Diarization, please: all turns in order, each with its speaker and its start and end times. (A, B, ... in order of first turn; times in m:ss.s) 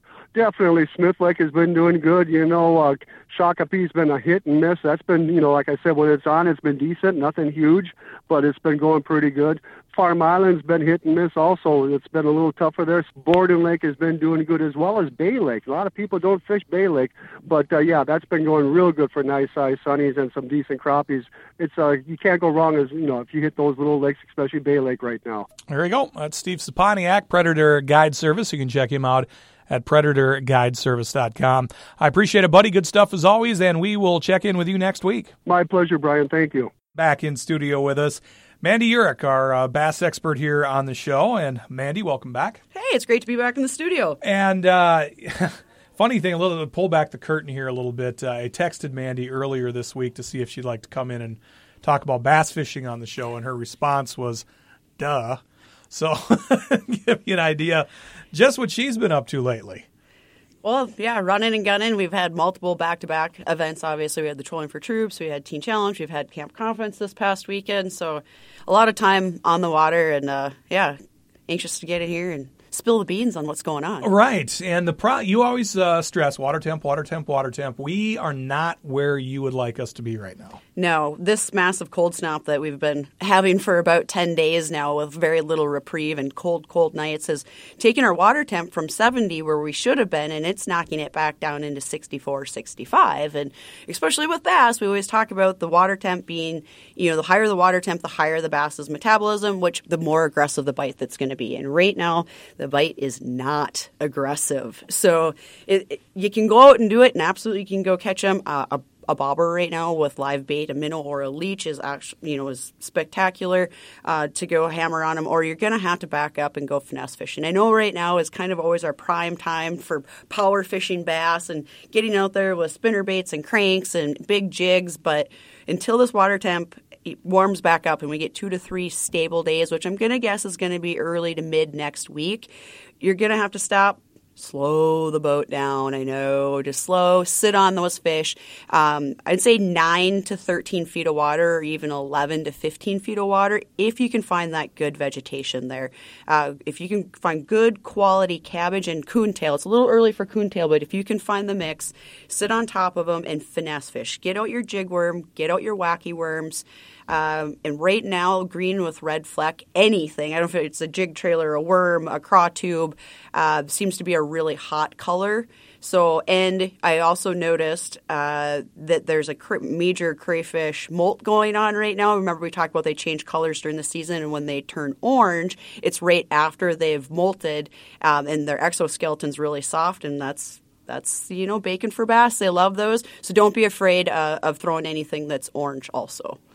0:00.3-0:25.5 A
0:25.7-0:35.3 B
0:35.5-0:36.7 A
0:36.9-0:42.6 B
0:42.7-0:44.2 C
0:44.2-0:54.4 B
0:55.0-0:59.8 B
1:00.6-1:11.0 C
1:11.5-1:14.1 C
1:14.0-1:20.6 B
1:20.8-3:06.4 C